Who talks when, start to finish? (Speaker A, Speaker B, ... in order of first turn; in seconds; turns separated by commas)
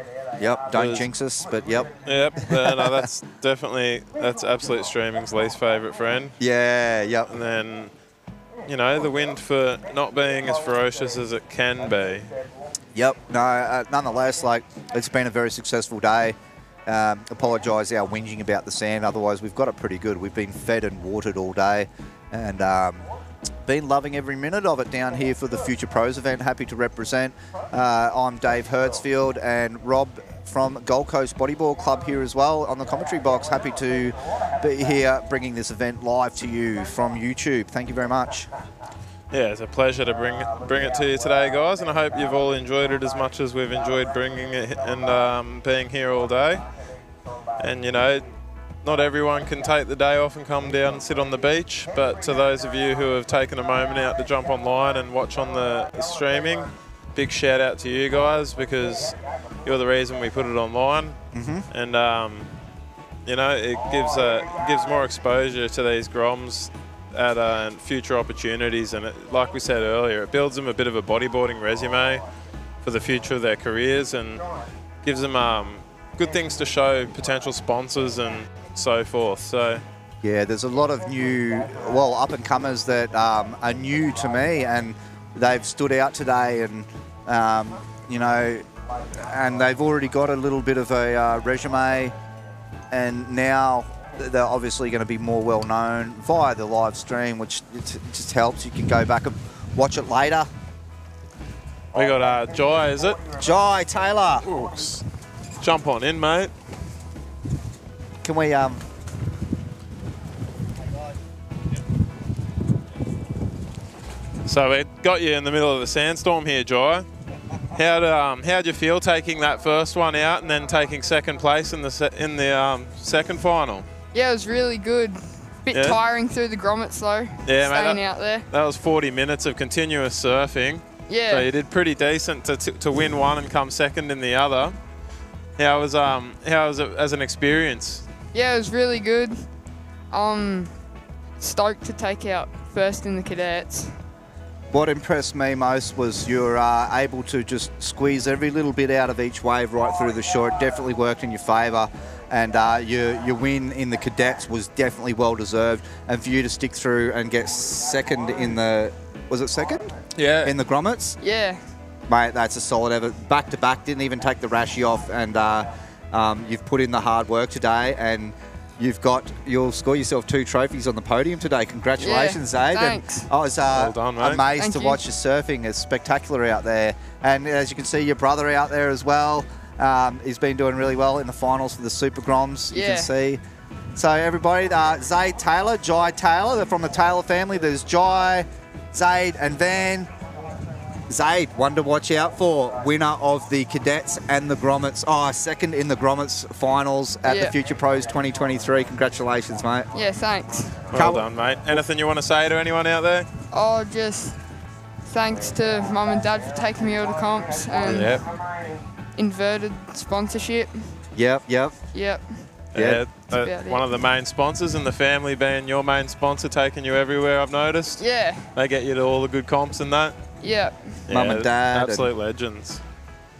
Speaker A: 0.4-3.0, Speaker B: 0.7-1.1, Speaker B: 2.0-6.4, Speaker A: 6.4-7.3, Speaker B: 7.3-7.9, Speaker B: 8.7-12.3, Speaker A: 12.9-16.4, Speaker A: 16.9-23.0, Speaker A: 23.6-38.5, Speaker B: 39.3-46.6, Speaker B: 47.6-48.3, Speaker B: 48.8-61.2, Speaker A: 61.3-61.7, Speaker B: 61.7-62.5, Speaker B: 63.2-72.2, Speaker B: 72.8-74.4, Speaker B: 75.0-79.8, Speaker A: 80.2-88.6, Speaker A: 89.2-92.1, Speaker A: 92.9-100.5, Speaker B: 101.9-103.2, Speaker A: 103.3-104.5, Speaker B: 104.5-105.0, Speaker B: 105.6-106.5, Speaker A: 108.2-108.8, Speaker B: 114.5-117.1, Speaker B: 117.7-123.9, Speaker C: 124.1-128.5, Speaker B: 125.7-126.0, Speaker B: 127.5-134.8, Speaker C: 131.1-131.5, Speaker B: 135.6-138.1, Speaker C: 138.3-139.4, Speaker C: 140.1-140.7, Speaker C: 141.4-143.9, Speaker A: 144.7-159.9, Speaker B: 160.2-160.6, Speaker A: 160.4-161.2, Speaker C: 161.2-161.6, Speaker A: 162.1-183.4, Speaker C: 172.0-173.3, Speaker B: 173.7-174.4, Speaker C: 174.5-175.0, Speaker C: 182.7-183.1, Speaker A: 184.0-190.1, Speaker A: 191.1-199.9, Speaker C: 197.2-197.6, Speaker C: 199.9-200.9, Speaker B: 200.9-203.3, Speaker A: 200.9-201.2, Speaker C: 203.5-204.4, Speaker C: 205.1-208.2, Speaker B: 207.8-208.2, Speaker C: 209.2-211.0, Speaker A: 211.2-211.8, Speaker C: 211.9-212.5, Speaker B: 212.7-220.2, Speaker A: 212.8-213.0, Speaker C: 213.3-213.8, Speaker C: 218.0-218.5, Speaker C: 220.4-221.0, Speaker B: 221.1-222.8, Speaker A: 221.1-222.1